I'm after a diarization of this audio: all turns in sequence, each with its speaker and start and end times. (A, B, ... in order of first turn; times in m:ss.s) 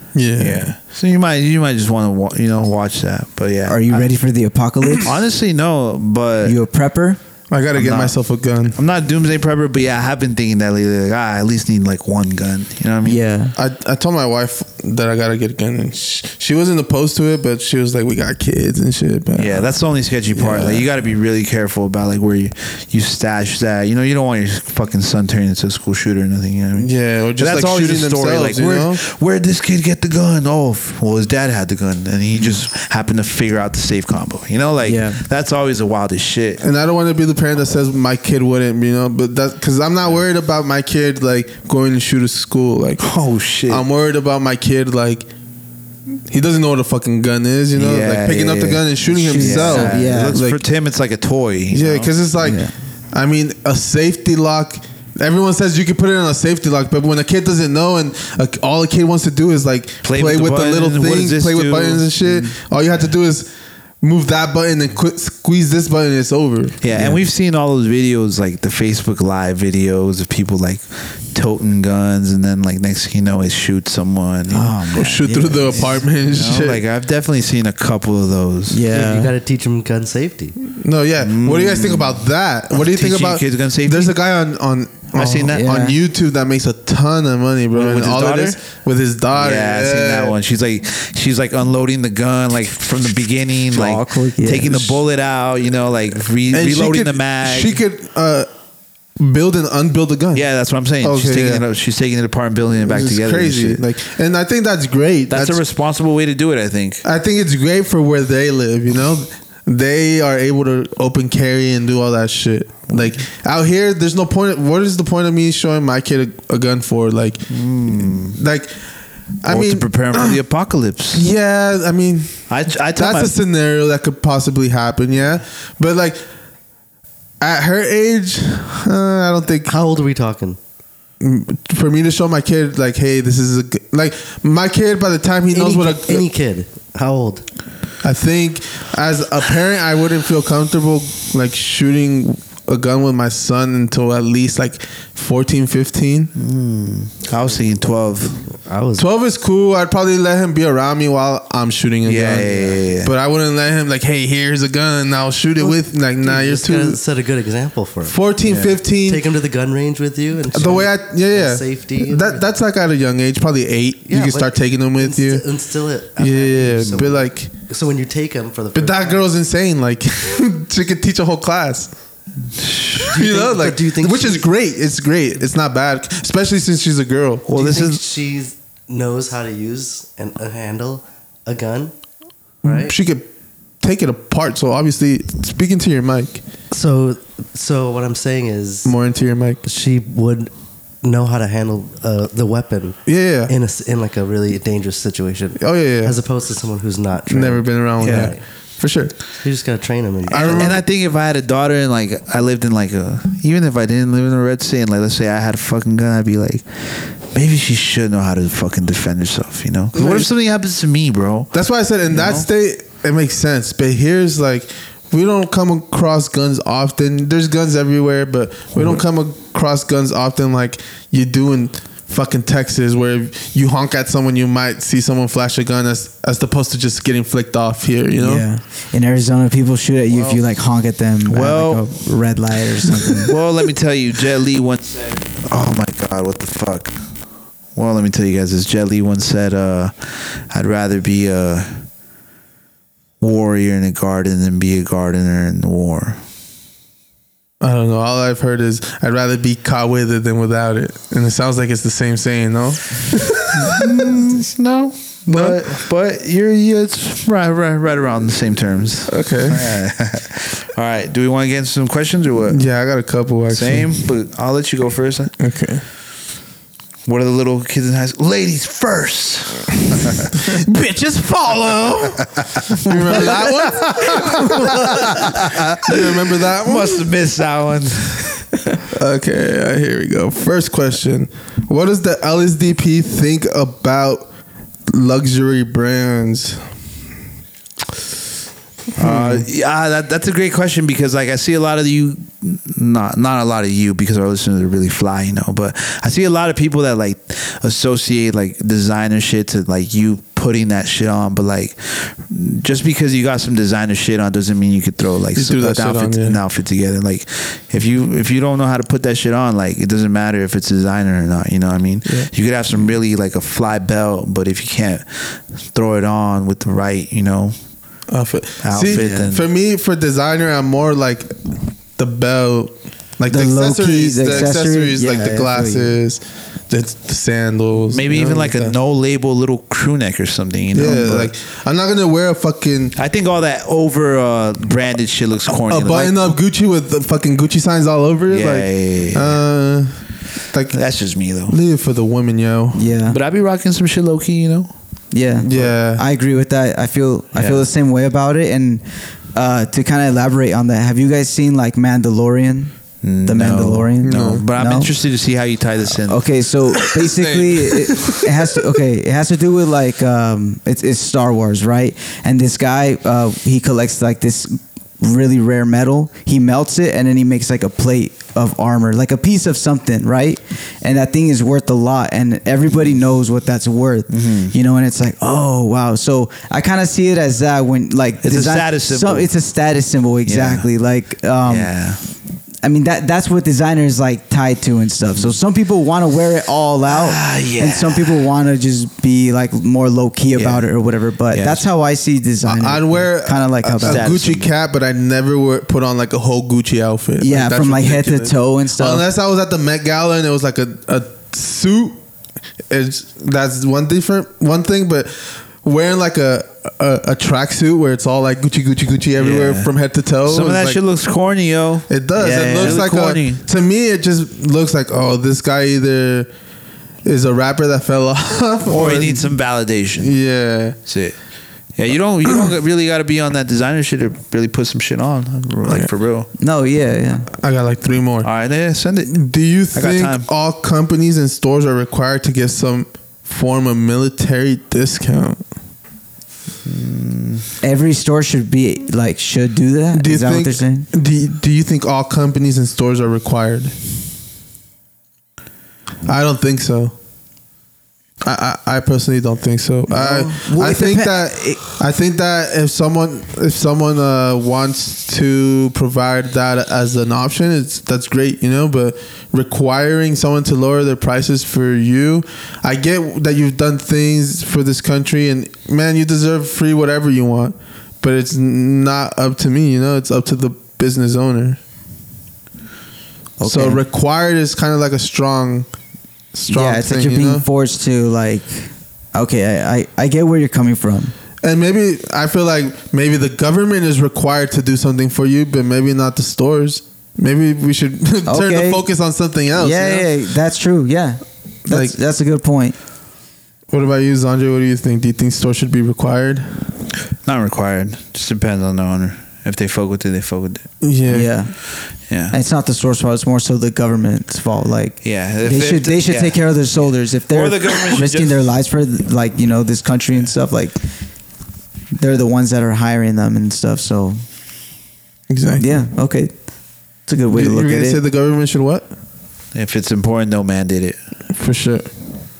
0:00.2-0:00.7 A
0:00.4-0:04.1 B
0:03.7-0:05.1 C
0:05.0-0:06.6 B
0:06.4-0:07.2 C
0:07.5-0:08.8 A
0:07.7-0:08.2 B
0:08.7-0:13.2 B
0:13.0-0:13.5 C
0:13.6-0:19.7 A
0:19.4-0:36.6 B
0:20.3-0:20.9 A
0:26.8-0:29.0 A
0:34.8-0:35.2 C
0:36.6-0:43.1 A
0:43.0-0:43.8 B
0:43.7-0:45.3 A
0:46.3-0:50.6 A
0:47.7-0:52.1 B
0:49.1-0:50.4 C
0:51.7-0:52.6 A
0:52.4-0:52.7 C
0:53.1-1:03.5 A
1:00.0-1:02.1 B
1:02.2-1:02.6 C
1:04.0-1:06.8 A
1:06.8-1:14.8 B
1:06.9-1:07.2 C
1:14.5-1:16.0 C
1:14.9-1:16.8 A
1:15.8-1:18.8 B
1:18.7-1:19.3 C
1:18.9-1:20.6 D
1:20.7-1:30.4 A
1:21.2-1:24.2 B
1:25.1-1:25.7 B
1:25.5-1:26.0 C
1:27.7-1:28.6 B
1:29.3-1:37.8 B
1:33.7-1:34.7 C
1:36.5-1:38.5 A
1:39.2-1:40.5 A
1:40.3-1:43.8 B
1:41.0-1:41.6 A
1:42.8-1:45.6 A
1:45.3-1:47.0 B
1:47.0-1:57.6 A
1:57.5-1:58.4 B
1:58.2-1:58.7 A
1:59.4-2:00.4 A
1:59.5-2:01.3 B
2:01.1-2:06.2 A
2:02.5-2:03.3 B
2:07.4-2:09.7 A
2:09.7-2:10.6 D
2:11.2-2:16.3 A
2:15.5-2:17.4 D
2:18.0-2:26.3 A
2:26.4-2:28.4 B
2:28.6-2:29.1 D
2:29.0-2:37.0 A
2:32.0-2:33.1 B
2:32.5-2:32.8 D
2:35.6-2:42.4 D
2:38.1-2:39.2 A
2:38.4-2:38.8 B
2:40.5-2:45.4 A
2:44.1-2:49.2 D
2:46.2-2:47.5 A
2:48.8-2:51.9 A
2:52.6-2:53.1 B
2:53.1-2:54.5 D
2:53.1-2:57.5 A
2:57.5-2:58.0 B
2:57.5-3:01.9 D
3:02.6-3:03.0 D
3:02.7-3:03.3 A
3:03.8-3:06.4 A
3:06.7-3:08.9 D
3:08.8-3:09.6 A
3:09.6-3:10.5 D
3:11.0-3:18.4 D
3:13.1-3:13.5 A
3:15.6-3:16.2 A
3:17.3-3:19.2 A
3:18.0-3:18.4 B
3:19.4-3:20.8 D
3:20.3-3:20.8 A
3:20.3-3:31.5 B
3:30.0-3:30.3 A
3:31.5-3:48.4 A
3:32.1-3:32.5 B
3:48.2-3:53.3 C
3:50.1-3:50.4 B
3:51.3-3:51.9 B
3:53.2-3:57.0 B
3:57.8-4:01.8 B
4:03.2-4:06.2 B
4:07.6-4:14.0 A
4:13.6-4:22.6 B
4:15.3-4:15.8 A
4:19.1-4:19.7 A
4:22.5-4:24.0 A
4:23.5-4:25.3 B
4:25.4-4:25.8 A
4:27.1-4:30.4 B
4:30.7-4:32.2 C
4:32.6-4:38.4 B
4:32.8-4:35.2 A
4:35.7-4:37.0 A
4:38.9-4:44.3 A
4:44.9-4:46.6 A
4:49.0-4:49.5 A
4:49.0-5:17.6 B
5:05.4-5:06.4 A
5:18.1-5:21.4 A
5:18.6-5:19.4 B
5:22.0-5:28.8 A
5:23.3-5:26.0 C
5:27.9-5:31.3 B
5:30.7-5:33.0 A
5:33.0-5:36.2 B
5:35.7-5:40.0 A
5:38.3-5:39.4 B
5:40.5-5:42.8 A
5:40.7-5:41.6 B
5:42.8-5:43.2 C
5:43.1-5:44.7 B
5:45.1-5:48.8 C
5:45.4-5:46.0 A
5:47.4-5:47.6 B
5:49.3-5:52.7 C
5:53.0-5:56.2 B
5:53.2-5:54.9 C
5:54.0-5:54.4 A
5:56.1-6:21.8 C
5:57.0-5:58.2 A
6:14.1-6:14.6 B
6:18.2-6:19.3 B
6:20.2-6:20.7 B
6:21.5-6:22.0 B
6:22.6-6:34.2 C
6:26.9-6:28.2 B
6:30.4-6:30.7 B
6:31.3-6:31.6 B
6:32.4-6:42.0 A
6:33.8-6:34.5 B
6:37.2-6:39.0 C
6:42.7-6:50.8 A
6:49.2-6:49.7 B
6:50.2-6:53.4 B
6:51.9-6:56.3 A
6:57.0-6:59.3 A
6:58.7-7:00.1 B
7:00.0-7:00.8 A
7:00.9-7:01.2 B
7:01.8-7:06.3 B
7:06.4-7:07.3 C
7:07.4-7:08.3 A
7:08.2-7:10.3 B
7:09.1-7:15.4 A
7:16.6-7:17.5 B
7:17.6-7:20.9 C
7:19.9-7:23.7 A
7:26.1-7:26.9 A
7:28.2-7:51.6 A
7:29.9-7:31.6 C
7:53.4-7:53.8 C
7:53.4-7:55.7 A
7:56.3-7:57.4 A
7:56.5-8:01.1 C
8:01.4-8:10.1 A
8:08.3-8:08.8 C
8:09.6-8:12.8 C
8:11.7-8:11.9 A
8:13.7-8:16.5 A
8:17.2-8:20.6 B
8:20.8-8:21.3 A
8:21.1-8:21.5 C
8:22.1-8:22.4 B
8:22.3-8:30.8 C
8:25.0-8:26.6 B
8:27.3-8:28.4 B
8:32.0-8:34.2 C
8:35.3-8:35.7 A
8:35.6-8:36.4 C
8:37.1-8:38.0 C
8:37.3-8:38.9 A
8:39.5-8:41.0 B
8:41.4-8:41.9 A